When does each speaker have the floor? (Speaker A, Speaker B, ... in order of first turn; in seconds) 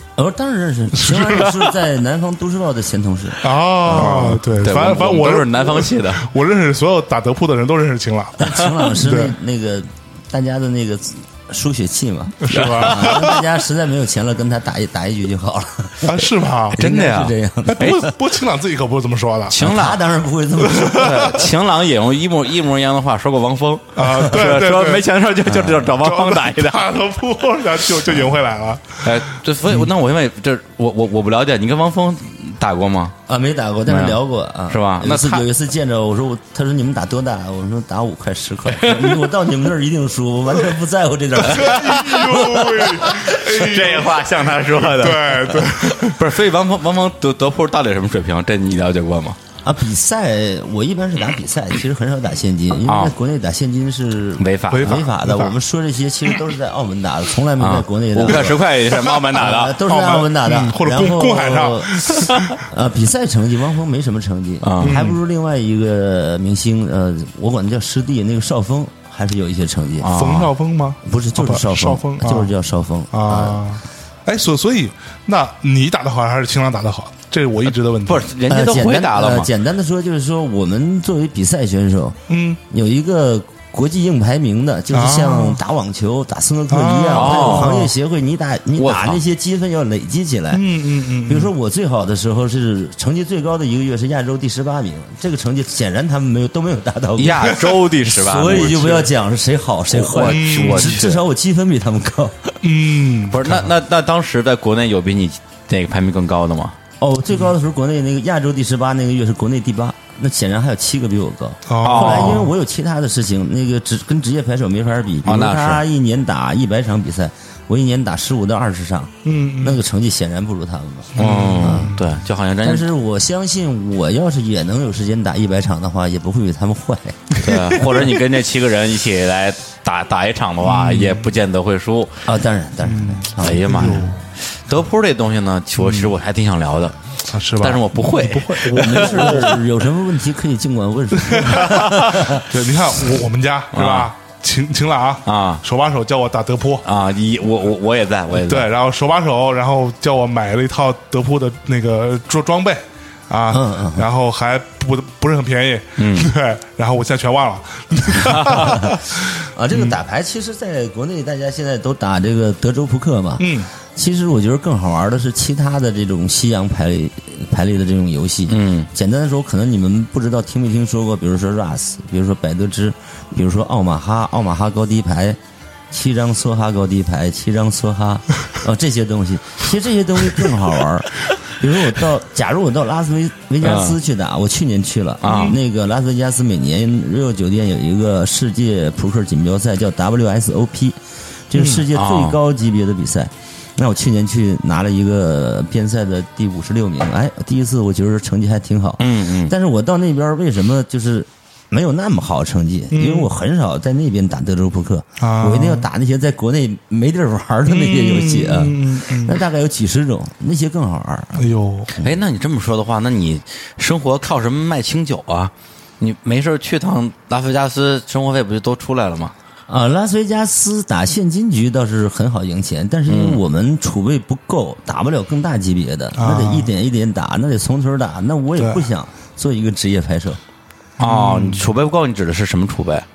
Speaker A: 0.2-4.4, 8.4-18.1, 19.6-21.4, 25.5-25.8, 33.3-42.6, 49.6-62.0, 62.6-70.1, 71.0-73.6, 78.5-82.2, 82.7-90.6, 91.2-102.6, 107.0-122.0, 122.6-127.8, 132.2-134.0, 138.7-142.4, 153.5-154.1, 158.7-175.4, 175.9-191.0, 191.5-212.1, 219.7-230.4
Speaker B: 0.9-1.6, 3.4-9.3, 12.4-13.3, 16.0-16.8, 17.7-19.6, 20.6-21.3, 23.9-25.1, 25.9-29.1, 41.4-46.2, 54.7-55.5, 59.8-62.5, 64.8-65.2, 70.1-72.5, 73.1-78.3, 82.3-82.6, 84.9-85.6, 86.7-87.9, 90.5-91.5, 97.4-97.8, 100.2-101.0, 102.6-103.7, 111.7-112.5, 119.2-119.8, 121.2-122.0, 130.6-131.3, 132.8-134.2, 135.8-136.1, 137.3-139.6, 141.2-146.8, 148.4-159.9, 163.4-163.7, 185.2-185.5, 202.9-203.3, 205.2-205.9, 207.7-209.4, 211.3-211.9, 226.2-226.7, 228.6-228.9, 231.0-231.7
Speaker C: 3.9-6.2, 12.5-13.2, 16.8-18.1, 19.5-20.0, 20.9-26.8, 29.0-33.1, 33.9-34.2, 34.7-35.4, 38.7-39.3, 41.6-49.4, 52.9-53.1, 54.4-55.0, 57.6-59.8, 64.6-65.0, 70.0-70.5, 78.0-79.5, 87.1-87.7, 88.8-89.2, 97.2-99.1, 99.9-101.2, 103.3-106.8, 111.8-112.5, 115.2-115.8, 121.2-122.8, 127.4-132.2, 133.4-136.9, 137.6-139.5, 143.7-144.1, 145.2-145.6, 146.8-148.7, 156.0-156.3, 158.2-158.8, 168.5-168.9, 183.6-183.9, 185.2-185.6, 191.7-192.4, 199.0-199.5, 212.0-219.3, 223.1-223.4, 231.0-233.1